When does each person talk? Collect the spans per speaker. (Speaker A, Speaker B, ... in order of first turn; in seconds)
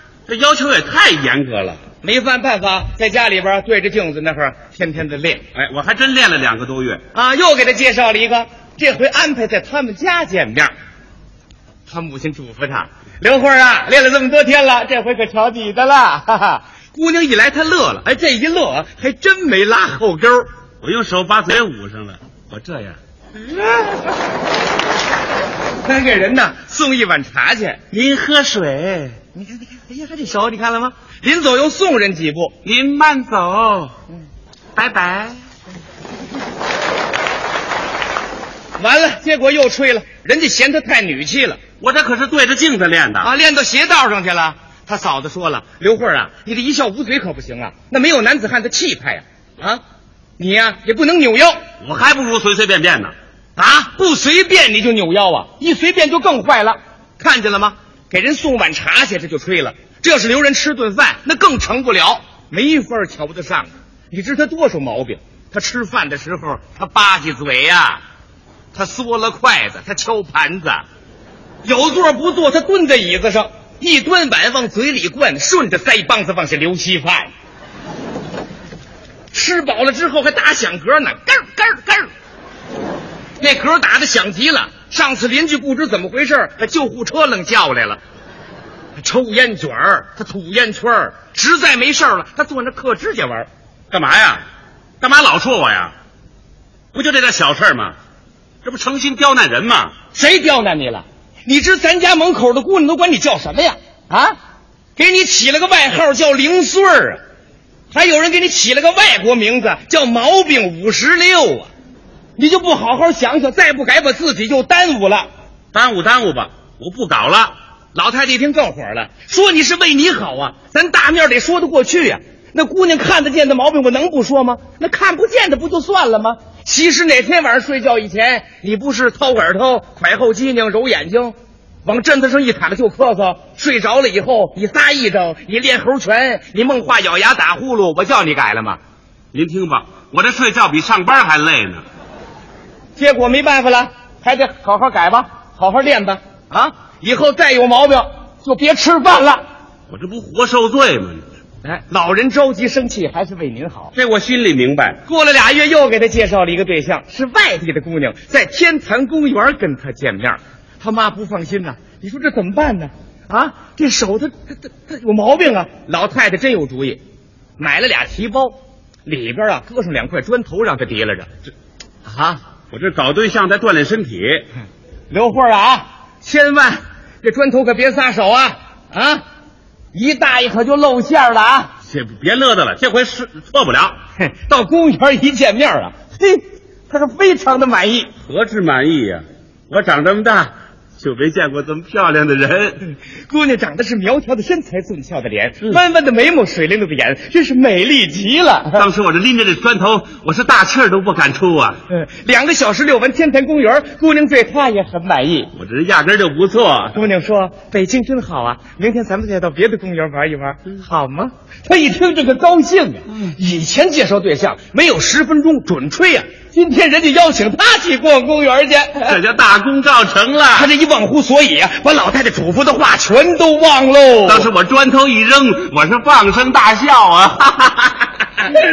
Speaker A: 0.3-1.8, 5.5-7.0, 20.8-23.0, 27.9-29.2, 32.6-33.9, 34.8-35.4, 41.8-43.3, 51.8-53.1, 93.9-94.4, 95.0-95.9, 96.9-98.0, 98.6-100.0, 115.7-117.5, 139.3-141.8, 149.9-151.2, 153.9-155.0, 172.7-174.5, 181.9-184.0, 188.2-192.9, 198.7-201.8, 205.6-207.0, 219.1-220.7, 224.3-228.1
Speaker B: 2.0-5.5, 7.1-10.7, 11.9-20.5, 25.8-27.8, 29.3-32.5, 38.8-41.6, 43.2-49.8, 50.4-51.6, 53.6-68.0, 68.7-70.8, 71.6-77.3, 79.3-82.1, 83.4-88.0, 89.0-93.5, 100.1-104.4, 105.0-107.2, 107.9-111.7, 112.4-115.3, 118.0-138.8, 143.0-149.4, 151.6-153.9, 155.1-167.0, 167.6-171.3, 172.1-172.4, 175.1-179.2, 179.9-181.7, 184.2-188.1, 193.3-198.8, 201.9-205.5, 206.9-219.2, 220.5-224.5